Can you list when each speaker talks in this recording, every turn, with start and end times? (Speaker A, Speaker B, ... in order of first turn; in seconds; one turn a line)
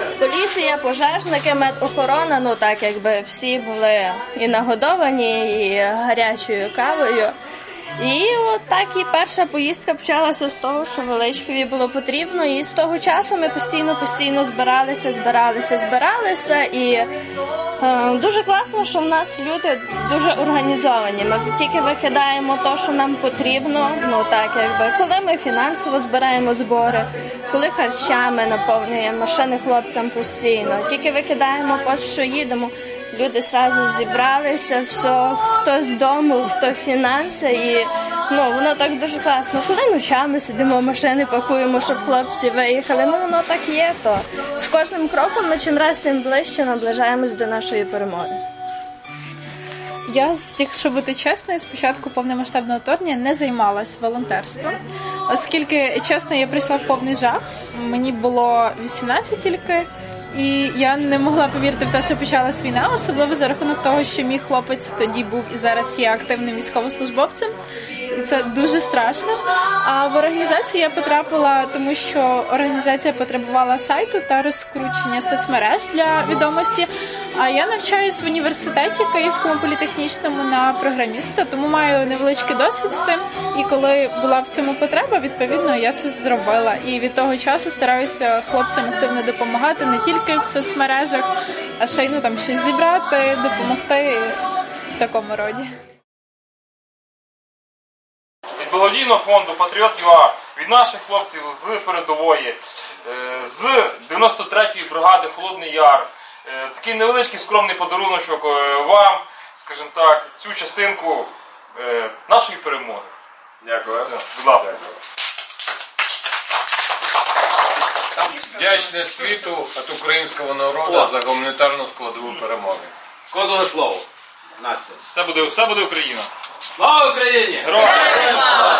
Speaker A: 0.2-7.3
Speaker A: 8.0-17.1
Speaker A: 17.8-48.4
Speaker B: 50.1-67.5
Speaker B: 68.1-94.4
Speaker B: 94.9-95.7
Speaker C: 98.5-113.1
Speaker D: 113.6-114.0
Speaker C: 113.9-114.8
Speaker E: 118.2-118.5
Speaker D: 118.6-122.9
Speaker E: 120.8-121.2
Speaker E: 123.3-124.1
Speaker E: 124.6-125.0
Speaker C: 125.0-126.3
Speaker E: 126.8-127.8
Speaker C: 127.6-128.4